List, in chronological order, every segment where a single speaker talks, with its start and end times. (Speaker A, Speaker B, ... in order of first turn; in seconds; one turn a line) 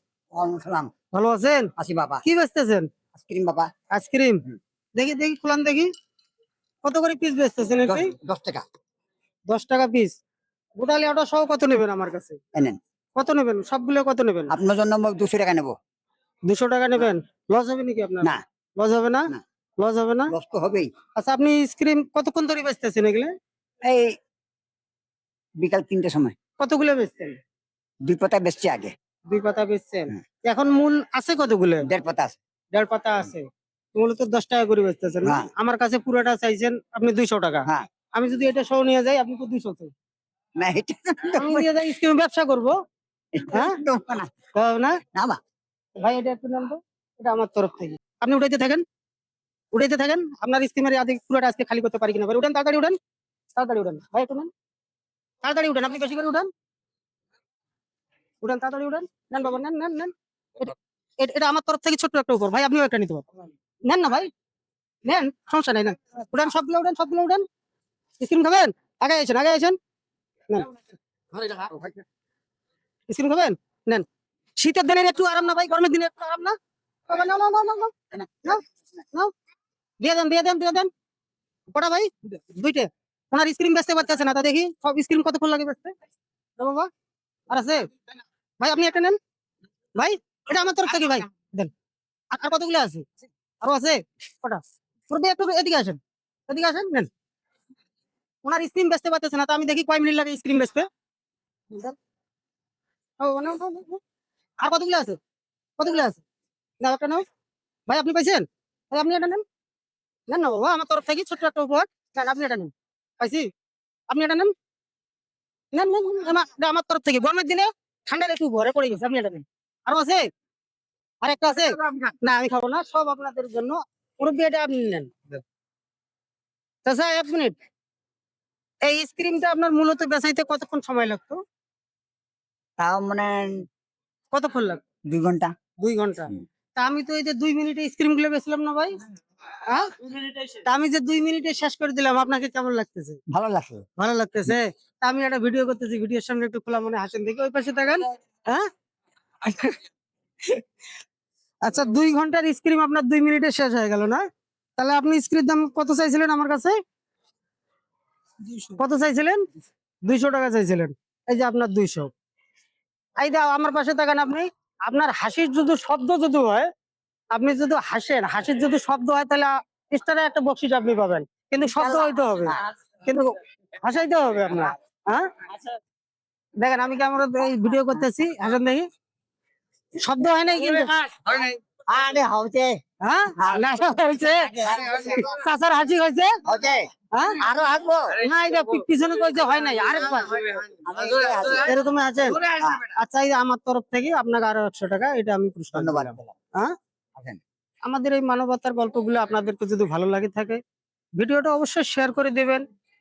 Speaker A: 0.3-0.9
Speaker B: 1.1-1.7
Speaker A: 1.8-2.2
Speaker B: 2.2-2.9
Speaker A: 3.1-3.7
Speaker B: 3.9-4.4
Speaker B: 5.0-5.9
Speaker B: 6.8-8.1
Speaker A: 7.9-8.6
Speaker B: 9.5-10.1
Speaker B: 10.8-12.4
Speaker B: 13.2-14.5
Speaker A: 14.5-15.7
Speaker B: 16.5-20.3
Speaker A: 20.3-20.9
Speaker B: 21.2-23.3
Speaker A: 23.8-24.1
Speaker A: 25.6-26.4
Speaker B: 26.6-27.4
Speaker A: 28.1-28.9
Speaker B: 29.3-31.9
Speaker A: 31.9-32.4
Speaker B: 32.7-39.9
Speaker A: 35.2-35.5
Speaker A: 40.6-41.7
Speaker B: 41.4-42.8
Speaker A: 43.3-44.3
Speaker B: 44.6-45.0
Speaker B: 46.0-48.8
Speaker B: 49.7-53.0
Speaker B: 53.6-54.5
Speaker B: 55.4-56.5
Speaker B: 58.4-63.3
Speaker B: 63.9-64.3
Speaker B: 65.0-67.5
Speaker B: 68.2-69.8
Speaker B: 71.3-72.0
Speaker B: 73.1-74.1
Speaker B: 74.6-76.6
Speaker B: 77.1-78.6
Speaker B: 80.0-80.9
Speaker B: 81.7-86.0
Speaker B: 86.6-86.9
Speaker B: 87.5-87.9
Speaker B: 88.6-89.2
Speaker B: 90.0-91.7
Speaker B: 92.3-93.1
Speaker B: 93.6-97.1
Speaker B: 98.4-100.9
Speaker B: 101.7-102.0
Speaker B: 103.2-104.0
Speaker B: 104.6-105.2
Speaker B: 105.8-106.2
Speaker B: 106.8-107.2
Speaker B: 107.9-109.4
Speaker B: 110.3-113.5
Speaker B: 114.1-114.5
Speaker B: 115.7-120.3
Speaker B: 121.2-125.4
Speaker A: 121.8-122.1
Speaker B: 126.8-127.5
Speaker B: 128.8-131.4
Speaker A: 132.8-133.7
Speaker B: 134.3-134.8
Speaker A: 135.1-135.5
Speaker B: 135.8-139.0
Speaker B: 139.6-143.2
Speaker A: 143.3-143.9
Speaker B: 144.0-148.7
Speaker B: 149.4-149.8
Speaker B: 151.7-154.2
Speaker B: 154.8-156.8
Speaker B: 158.8-159.4
Speaker B: 160.1-162.1
Speaker B: 163.2-166.7
Speaker B: 167.3-175.5
Speaker A: 171.7-172.6
Speaker B: 176.6-178.9
Speaker B: 180.0-181.0
Speaker A: 181.1-182.8
Speaker B: 183.0-186.4
Speaker A: 183.4-183.7
Speaker A: 184.4-185.2
Speaker A: 186.4-186.9
Speaker B: 187.1-187.4
Speaker A: 187.4-188.2
Speaker B: 188.2-190.6
Speaker A: 190.8-191.8
Speaker B: 191.6-196.7
Speaker A: 192.4-192.8
Speaker A: 195.7-196.4
Speaker B: 197.8-200.6
Speaker B: 201.2-202.6